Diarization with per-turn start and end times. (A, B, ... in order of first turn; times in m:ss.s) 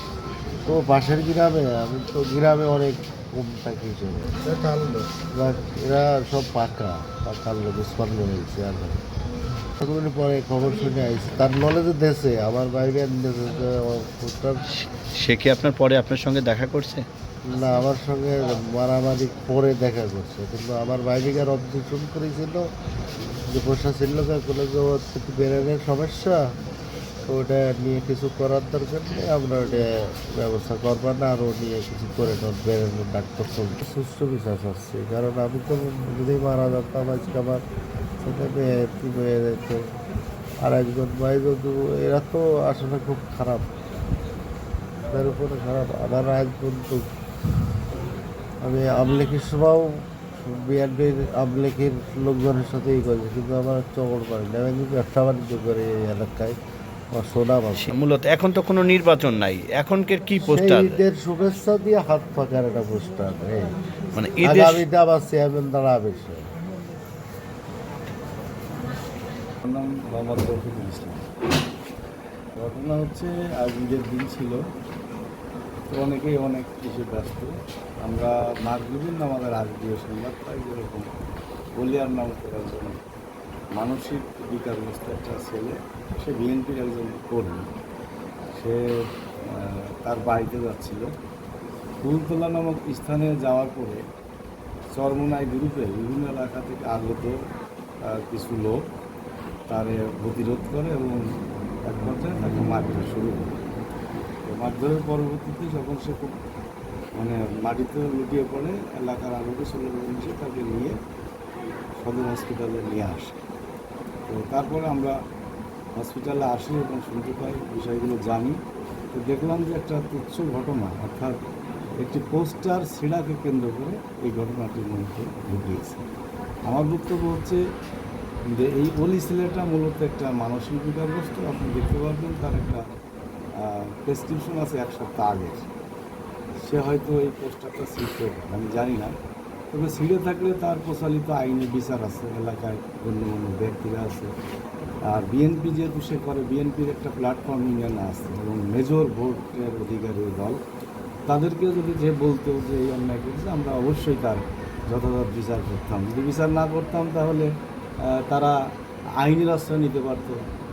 0:00.6-0:09.0 A
0:09.8-0:14.6 A
0:14.8-0:17.1 B
0:17.4-0:22.6 A
0:23.5-0:26.4 A
0:27.2-0:37.6 A
0:38.2-0:39.8 A
0:40.6-0:43.7 A
0:45.1-0:47.0 A
0:48.6-0:56.6 A
0:57.1-0:57.9 A
0:57.8-1:01.0 B
1:00.5-1:03.7 A
1:04.2-1:04.8 B
1:04.4-1:06.5 A
1:09.6-1:11.3 C
1:12.6-1:14.6 C
1:15.9-1:17.5 C
1:18.0-1:21.0 C
1:21.8-1:23.0 C
1:23.8-1:27.7 C
1:28.6-1:28.8 C
1:29.5-1:31.1 C
1:32.0-1:34.0 C
1:34.9-1:37.3 C
1:38.0-1:38.8 C
1:39.7-1:41.2 C
1:41.9-1:43.6 C
1:44.4-1:46.3 C
1:47.2-1:51.0 C
1:52.0-1:53.4 C
1:54.3-1:55.1 C
1:56.0-1:58.6 C
1:59.1-2:01.4 C
2:02.0-2:06.0 C
2:06.7-2:07.6 C
2:08.5-2:12.8 C
2:13.6-2:15.7 C
2:16.6-2:19.1 C
2:19.7-2:24.3 C
2:25.1-2:30.6 C
2:31.3-2:37.5 C
2:38.0-2:38.5 C
2:39.2-2:40.4 C